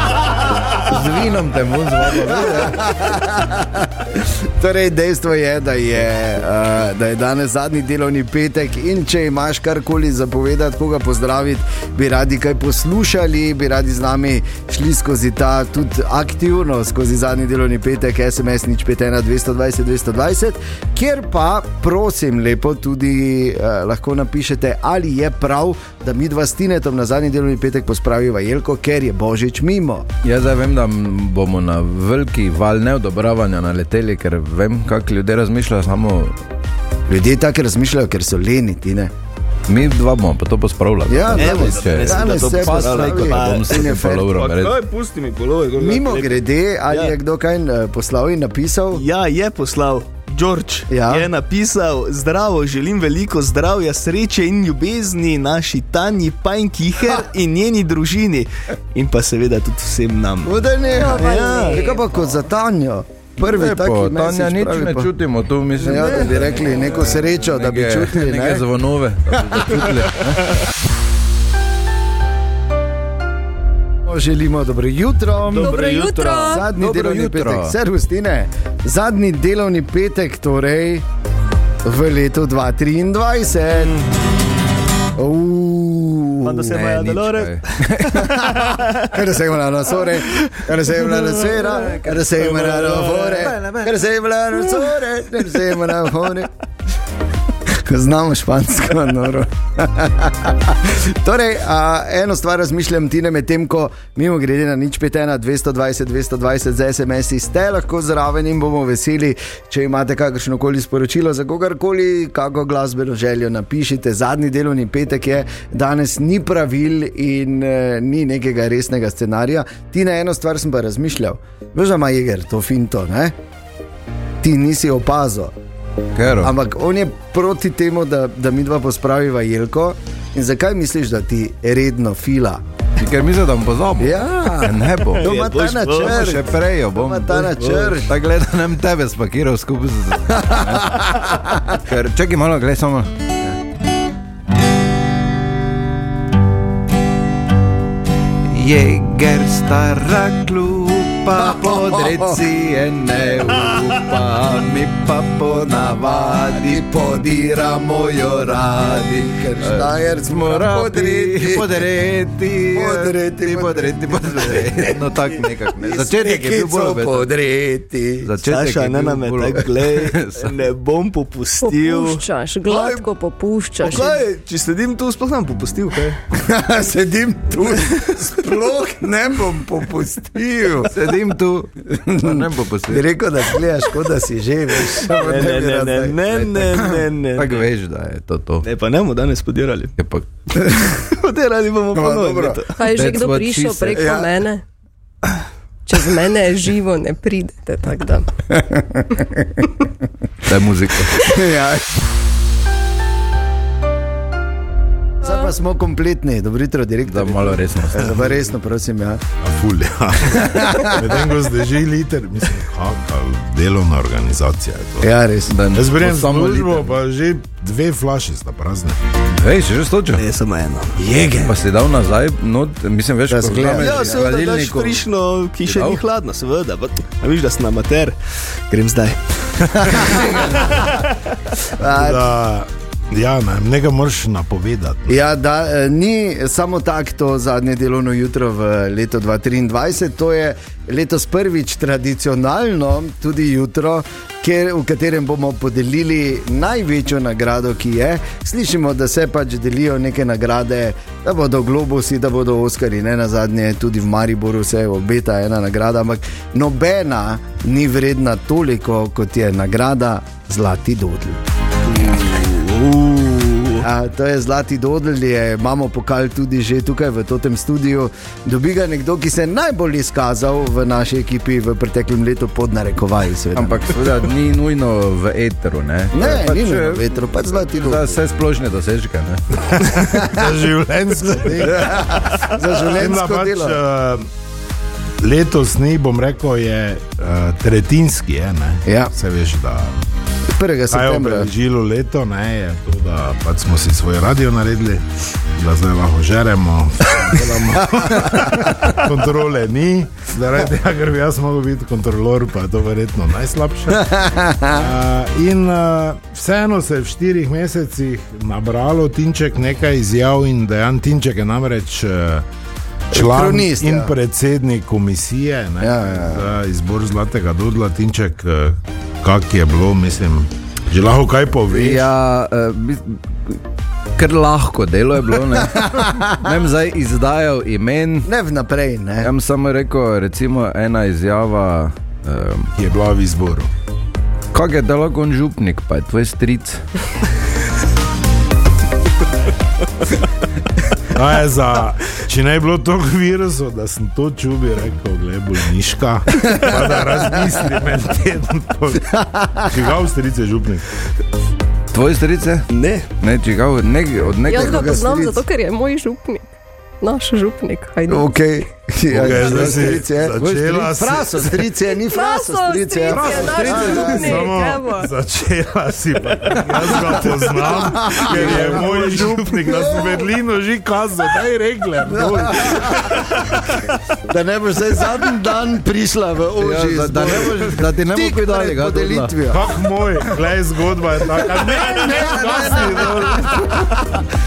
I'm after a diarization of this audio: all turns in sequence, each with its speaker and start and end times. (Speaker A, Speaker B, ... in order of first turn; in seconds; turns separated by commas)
Speaker A: 0.8-2.9, Speaker B: 2.2-30.1, Speaker A: 30.2-36.4, Speaker B: 37.1-39.1, Speaker A: 39.7-44.8, Speaker B: 41.1-44.3, Speaker C: 41.3-47.1, Speaker B: 45.8-49.0, Speaker C: 48.9-61.9, Speaker B: 50.9-51.3, Speaker B: 60.4-65.1, Speaker D: 60.9-62.4, Speaker A: 63.4-70.4, Speaker B: 65.8-68.7, Speaker B: 69.3-69.6, Speaker B: 74.0-81.0, Speaker C: 75.5-76.3, Speaker D: 75.6-76.7, Speaker A: 76.7-77.8, Speaker B: 81.8-84.0, Speaker C: 83.8-84.1, Speaker B: 85.1-87.1, Speaker C: 86.4-89.2, Speaker A: 86.8-88.3, Speaker B: 88.1-96.5, Speaker C: 90.2-93.5, Speaker A: 91.6-93.9, Speaker B: 97.7-123.3, Speaker B: 124.4-125.5, Speaker A: 126.2-126.5, Speaker B: 126.4-132.6, Speaker A: 133.0-135.3, Speaker B: 134.0-138.1, Speaker C: 135.2-136.3, Speaker A: 135.9-141.1, Speaker C: 137.4-138.0, Speaker B: 140.3-141.8, Speaker A: 141.8-143.1, Speaker A: 148.5-157.0, Speaker B: 151.3-152.4, Speaker B: 155.4-161.8, Speaker A: 158.0-158.6, Speaker A: 159.6-167.3, Speaker B: 162.7-165.0, Speaker B: 165.8-168.3, Speaker A: 168.2-170.5, Speaker C: 168.4-173.0, Speaker D: 171.6-174.2, Speaker C: 173.8-176.2, Speaker B: 176.3-180.9, Speaker A: 180.8-183.1, Speaker B: 181.9-186.9, Speaker C: 185.1-187.7, Speaker A: 186.3-188.7, Speaker C: 188.6-189.9, Speaker A: 190.0-190.2, Speaker B: 190.6-190.9, Speaker C: 191.0-192.8, Speaker B: 191.9-192.6, Speaker D: 192.7-194.6, Speaker A: 192.9-194.1, Speaker B: 193.9-194.3, Speaker D: 195.8-198.3, Speaker B: 198.5-199.7, Speaker A: 200.4-201.2, Speaker B: 201.2-201.9, Speaker B: 205.2-209.2, Speaker D: 205.2-205.5, Speaker A: 207.1-208.3, Speaker E: 209.4-215.1, Speaker B: 210.4-211.1, Speaker B: 215.0-215.5, Speaker A: 215.5-216.9, Speaker E: 215.7-219.0, Speaker A: 219.3-220.2, Speaker C: 220.2-221.0, Speaker B: 221.0-221.5, Speaker A: 221.4-225.0, Speaker B: 223.3-224.2, Speaker C: 223.8-228.2, Speaker A: 225.6-226.0, Speaker C: 228.7-230.4, Speaker B: 229.8-230.8, Speaker B: 231.7-232.2, Speaker E: 231.9-235.2, Speaker B: 235.1-261.4, Speaker C: 261.9-263.8, Speaker B: 263.8-273.9, Speaker A: 273.5-279.4, Speaker B: 276.1-278.2, Speaker E: 279.7-284.3, Speaker B: 280.1-280.4, Speaker B: 281.6-283.8, Speaker E: 285.2-290.0, Speaker B: 288.9-289.1, Speaker B: 290.5-291.5, Speaker E: 290.9-304.1, Speaker B: 297.8-298.9, Speaker B: 303.9-304.9, Speaker E: 304.7-312.4, Speaker E: 313.1-322.0, Speaker B: 313.1-314.1, Speaker B: 315.8-316.5, Speaker A: 321.7-323.6, Speaker A: 324.1-328.3, Speaker B: 325.6-326.5, Speaker B: 328.2-329.3, Speaker A: 329.2-332.7, Speaker E: 332.8-333.7, Speaker A: 334.5-336.8, Speaker E: 341.1-350.9, Speaker B: 346.5-347.2, Speaker B: 349.1-349.7, Speaker A: 351.9-355.0, Speaker C: 352.7-353.1, Speaker D: 354.5-356.5, Speaker B: 354.5-355.4, Speaker D: 357.0-358.3, Speaker B: 358.1-364.5, Speaker E: 359.1-361.7, Speaker D: 362.0-365.1, Speaker E: 363.1-373.9, Speaker B: 367.1-370.2, Speaker A: 368.2-369.2, Speaker B: 372.1-373.1, Speaker B: 374.3-379.6, Speaker A: 376.6-379.3, Speaker E: 379.5-384.1, Speaker B: 381.6-383.8